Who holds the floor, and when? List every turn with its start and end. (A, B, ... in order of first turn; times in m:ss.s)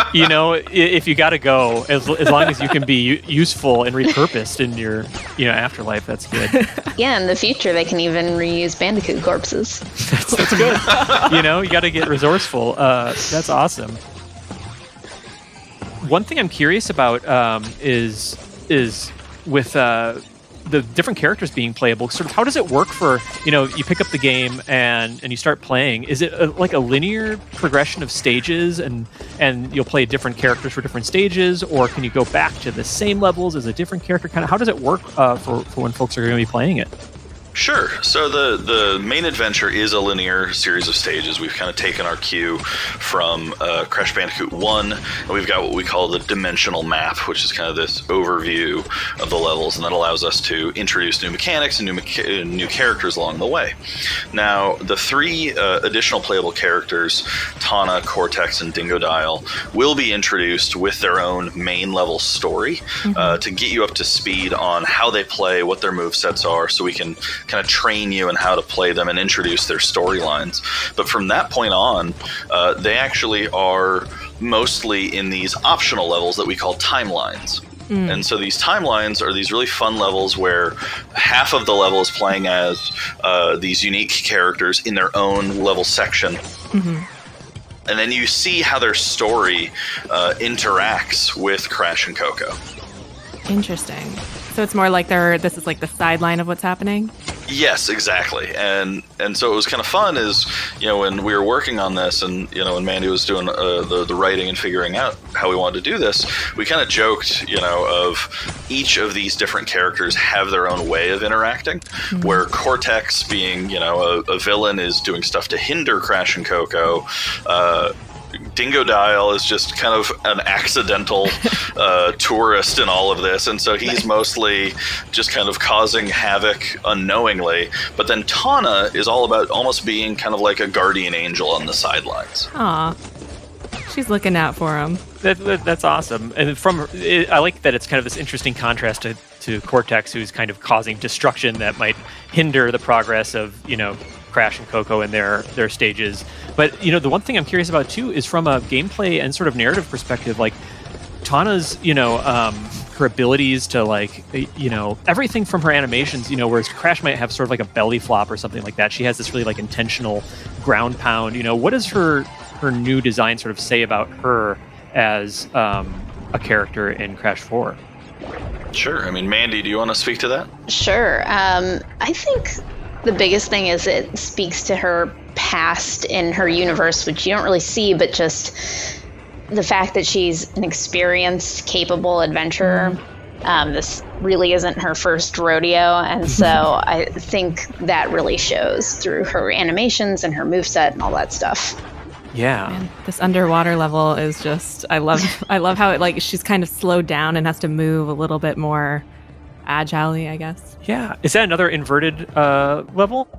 0:00.1-0:06.6 A
0:06.5-0:06.9 B
0:07.0-0:09.8 C
0:10.0-0:14.0 A
0:10.4-0:11.3 B
0:10.9-0:11.3 D
0:16.0-0:36.9 A
0:37.6-0:53.8 D
0:54.3-1:26.4 D
1:03.0-1:03.4 B
1:17.9-1:18.3 B
1:26.7-1:27.1 B
1:27.9-1:32.6 D
1:33.5-1:37.1 B
1:37.5-1:57.9 D
1:52.1-1:52.4 B
1:58.6-2:12.5 D
2:12.5-2:13.0 B
2:13.9-2:15.0 B
2:15.2-2:30.6 A
2:31.2-2:47.8 A
2:48.7-2:50.5 D
2:50.7-2:59.0 C
2:59.5-3:11.8 C
3:02.6-3:03.0 B
3:06.3-3:06.6 A
3:12.3-3:12.8 A
3:12.7-3:19.1 B
3:19.6-3:20.7 B
3:20.8-3:23.3 A